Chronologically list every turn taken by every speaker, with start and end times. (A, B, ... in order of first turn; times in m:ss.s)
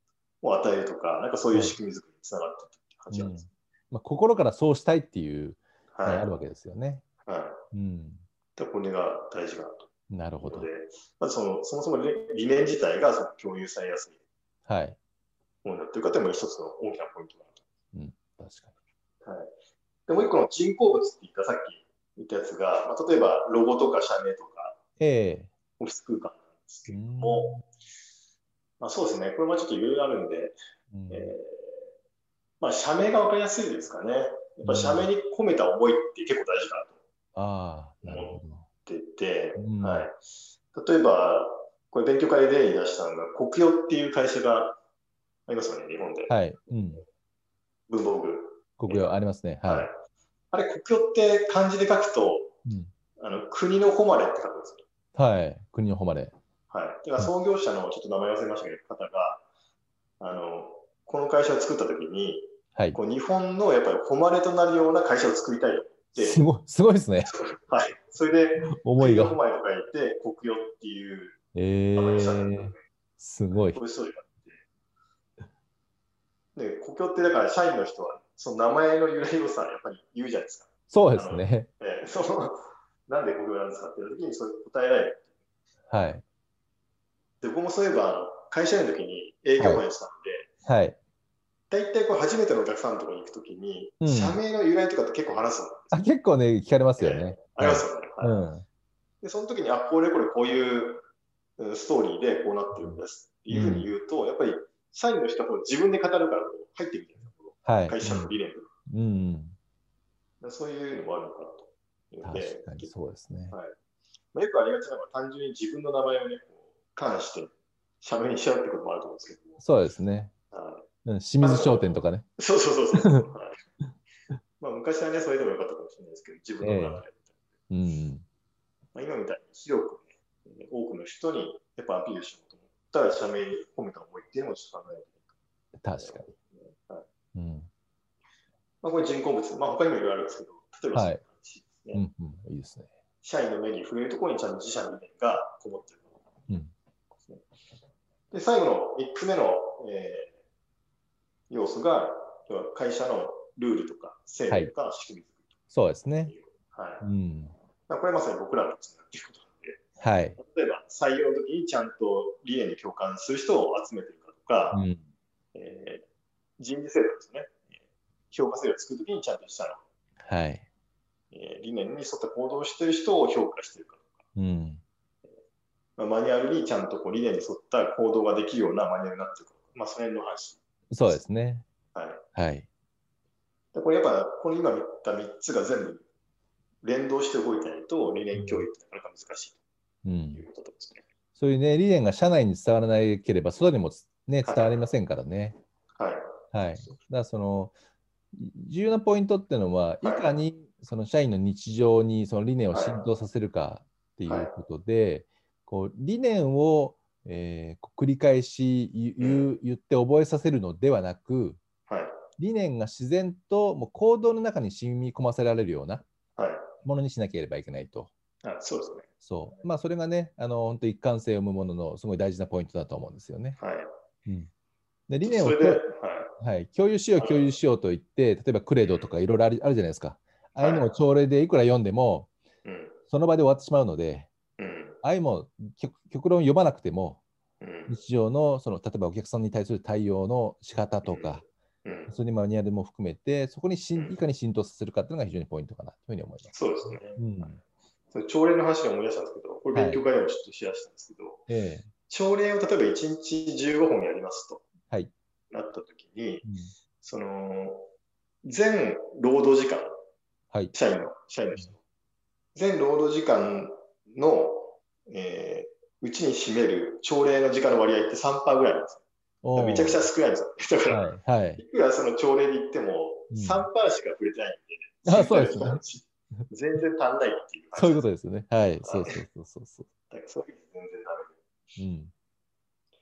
0:00.4-0:03.4 A
0:01.5-0:01.8 B
0:03.1-0:07.0 B
0:05.9-0:06.3 A
0:07.3-0:07.6 A
0:07.7-0:08.2 B
0:08.6-0:09.9 A
0:10.1-0:10.7 B
0:10.4-0:14.2 A
0:14.7-0:15.0 B
0:15.6-0:17.6 A
0:17.9-0:18.7 B
0:19.2-0:19.5 A
0:20.1-0:24.8 A
0:25.0-0:25.5 B
0:25.8-0:27.5 A
0:26.9-0:27.7 B
0:28.8-0:30.6 A
0:30.9-0:31.3 B
0:31.1-0:31.8 A
0:32.6-0:37.0 A
0:34.6-0:35.1 B
0:37.4-0:38.7 B
0:38.0-0:40.2 A
0:39.6-0:40.1 B
0:40.7-0:44.8 A
0:45.5-0:46.4 A
0:46.3-0:47.0 B
0:47.9-0:49.1 A
0:48.8-0:49.9 B
0:49.7-0:49.9 A
0:50.5-0:52.6 A
0:52.6-0:52.9 B
0:53.2-0:54.8 A
0:55.2-0:56.3 B
0:56.7-0:59.4 A
1:00.2-1:06.4 A
1:06.2-1:07.3 B
1:07.3-1:11.4 A
1:08.7-1:09.4 B
1:11.6-1:13.8 B
1:12.0-1:12.8 A
1:13.7-1:14.6 A
1:16.6-1:25.3 A
1:20.9-1:21.7 B
1:25.9-1:26.2 B
1:27.4-1:30.5 A
1:30.6-1:31.0 B
1:31.7-1:36.1 A
1:34.0-1:34.4 B
1:35.9-1:38.6 B
1:37.0-1:38.4 A
1:39.2-1:41.0 A
1:41.6-1:48.7 A
1:42.8-1:43.9 B
1:47.6-1:48.4 B
1:48.9-1:49.6 B
1:50.4-1:52.9 A
1:52.2-1:53.6 B
1:54.3-1:59.6 A
1:59.6-2:00.3 B
2:00.5-2:00.9 A
2:01.1-2:02.2 B
2:01.4-2:01.9 A
2:02.4-2:03.6 A
2:03.0-2:03.3 B
2:04.6-2:07.4 A
2:06.6-2:07.0 B
2:07.7-2:08.2 B
2:08.9-2:15.2 A
2:15.8-2:16.3 B
2:16.0-2:17.1 A
2:17.4-2:17.7 B
2:18.8-2:22.0 A
2:20.9-2:21.2 B
2:21.9-2:22.9 B
2:23.2-2:26.1 A
2:28.3-2:30.3 A
2:31.5-2:35.4 A
2:35.7-2:36.4 B
2:36.3-2:37.1 A
2:37.0-2:37.5 B
2:37.9-2:39.8 A
2:40.0-2:40.4 B
2:40.4-2:44.8 A
2:44.7-2:45.0 B
2:45.5-2:46.0 A
2:46.6-2:47.8 A
2:48.3-2:49.8 A
2:50.2-2:50.7 B
2:51.3-2:54.1 A
2:54.4-2:54.8 B
2:56.0-3:01.2 A
3:00.9-3:01.6 B
3:01.9-3:02.2 A
3:02.4-3:02.7 B
3:03.7-3:06.0 A
3:06.8-3:09.6 A
3:08.3-3:08.6 B
3:10.0-3:10.4 B
3:10.3-3:11.0 A
3:11.4-3:15.6 B
3:14.4-3:14.8 A
3:16.0-3:16.2 A
3:16.5-3:17.8 B
3:18.3-3:31.6 B
3:22.7-3:23.0 A
3:29.2-3:29.5 A
3:31.9-3:32.2 A
3:32.4-3:36.0 B
3:36.4-3:36.7 A
3:36.8-3:38.1 B
3:38.4-3:39.1 A
3:39.2-3:43.6 B
3:43.6-3:43.9 A
3:45.1-3:45.8 B
3:45.2-3:46.3 A
3:46.4-3:52.3 B
3:47.2-3:47.6 A
3:48.8-3:49.1 A
3:50.6-3:50.9 A
3:52.6-3:53.0 A
3:53.1-3:54.3 B
3:54.6-3:55.0 A
3:55.0-3:57.2 B
3:57.6-3:58.0 A
3:57.9-4:01.5 B
4:01.1-4:02.1 A
4:02.1-4:07.6 B
4:06.5-4:11.5 A
4:09.7-4:10.1 B
4:11.5-4:11.9 B
4:12.1-4:14.6 A
4:15.5-4:16.5 A
4:16.4-4:16.7 B
4:17.0-4:17.9 A
4:18.4-4:19.9 A
4:20.7-4:21.8 A
4:22.6-4:29.0 A
4:29.4-4:30.0 B
4:29.6-4:38.1 A
4:30.9-4:31.6 B
4:33.3-4:33.7 B
4:35.1-4:35.8 B
4:37.8-4:39.9 B
4:38.8-4:39.2 A
4:40.1-4:41.4 A
4:41.8-4:42.1 B